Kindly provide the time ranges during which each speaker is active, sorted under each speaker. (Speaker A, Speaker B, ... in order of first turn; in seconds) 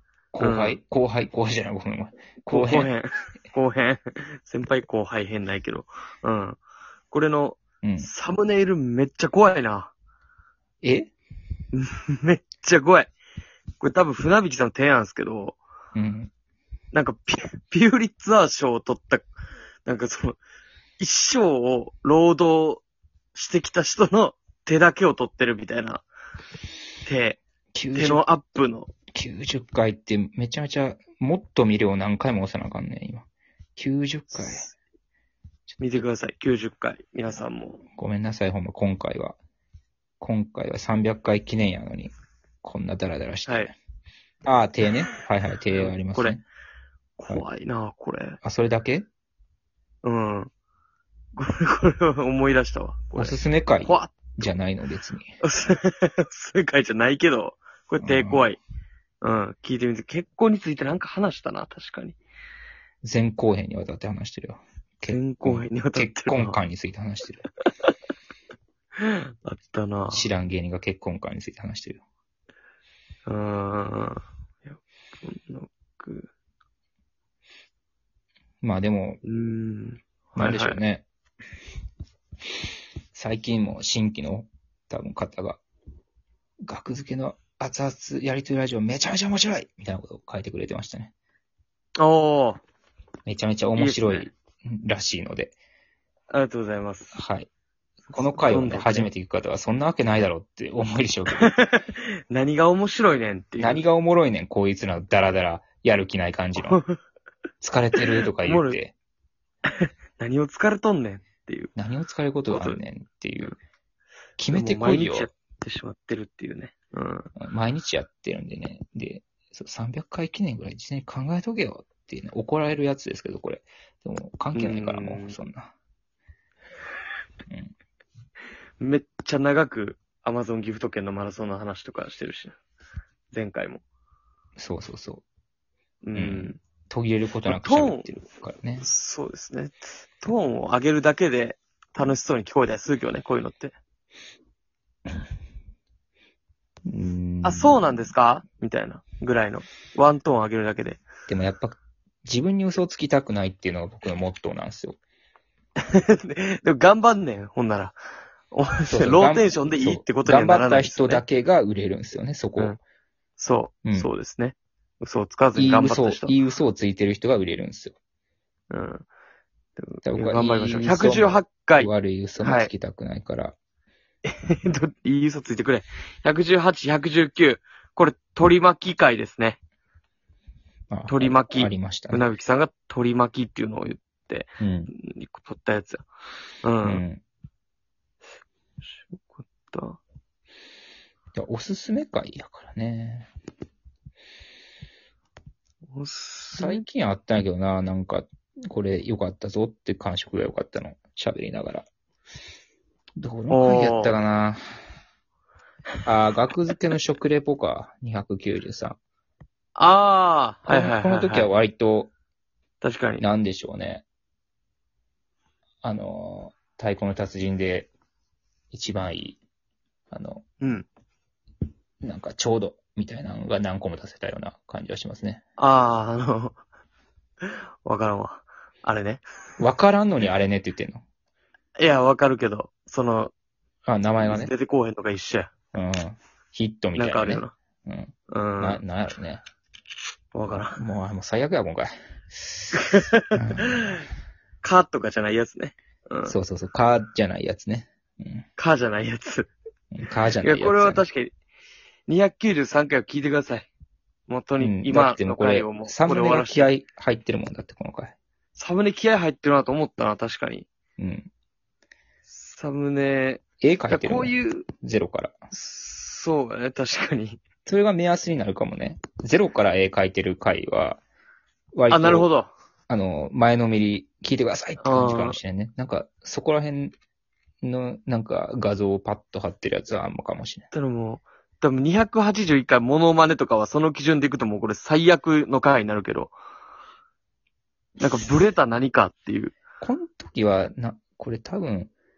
Speaker A: 0.3-2.9, 7.8-8.1, 10.8-11.1, 15.9-16.3, 27.7-28.2, 29.1-34.7, 38.0-39.4, 40.2-42.1, 42.6-43.8, 44.4-46.4, 48.4-49.1, 53.1-55.3, 58.0-58.5, 63.0-67.4, 70.1-72.0, 78.6-79.2, 80.4-81.1, 83.1-85.6, 86.6-91.1, 93.2-95.6, 97.1-97.5, 98.1-101.5, 103.6-106.8, 107.6-108.9, 111.8-113.5, 114.4-115.3, 117.4-125.7, 127.5-127.7, 134.6-135.2, 136.1-138.9, 146.9-148.1, 151.3-155.0, 158.9-162.8, 163.8-164.1, 165.6-167.9, 170.0-173.6, 180.9-182.2, 184.6-184.9, 186.8-187.2, 191.3-193.3, 196.6-201.9, 203.2-204.6, 206.1-209.0, 210.7-212.1, 213.2-214.0, 215.8-217.9, 218.7-219.4, 220.1-220.4, 222.0-225.4, 229.6-231.0, 233.9-234.5, 235.7-239.4, 240.8-242.7, 243.3-244.0, 246.2-248.5, 249.9-251.1, 254.6-258.1, 261.0-261.3, 263.6-265.3, 267.6-271.0, 271.7-272.3, 272.9-276.9, 277.6-280.6, 289.8-291.9
Speaker B: 0.4-0.8, 2.5-6.6, 7.1-9.9, 11.7-13.1, 13.8-15.6, 16.9-19.2, 19.9-20.4, 21.0-22.8, 23.4-26.1, 27.1-27.4, 27.9-28.9, 34.3-34.8, 35.8-37.8, 43.5-43.7, 45.7-46.4, 47.2-48.4, 50.0-50.5, 51.4-54.5, 55.4-58.6, 59.2-62.2, 65.1-66.6, 69.0-70.2, 73.2-76.3, 79.2-80.8, 92.0-92.6, 93.8-94.3, 96.3-97.2, 98.1-99.1, 101.3-103.8, 106.6-107.0, 108.4-108.8, 109.8-111.7, 112.5-112.8, 114.5-117.3, 124.5-125.4, 128.8-132.6, 133.3-133.8, 136.0-136.6, 137.4-138.2, 138.8-143.7, 147.4-151.1, 155.8-158.0, 158.5-161.2, 163.4-166.3, 168.7-169.1, 169.8-172.7, 174.2-179.6, 181.1-186.1, 186.6-187.0, 189.1-190.0, 195.9-196.8, 203.5-204.2, 209.8-211.5, 212.8-213.2, 220.6-220.9, 225.6-226.6, 227.4-229.2, 231.8-233.3, 234.2-235.5, 236.9-237.5, 238.3-238.8, 240.3-240.8, 242.8-244.0, 244.6-246.3, 248.6-249.5, 250.4-251.3, 252.1-253.7, 254.3-256.7, 258.6-260.7, 262.3-264.7, 265.5-267.4, 271.9-272.5, 274.8-275.4, 280.7-286.3, 288.0-289.5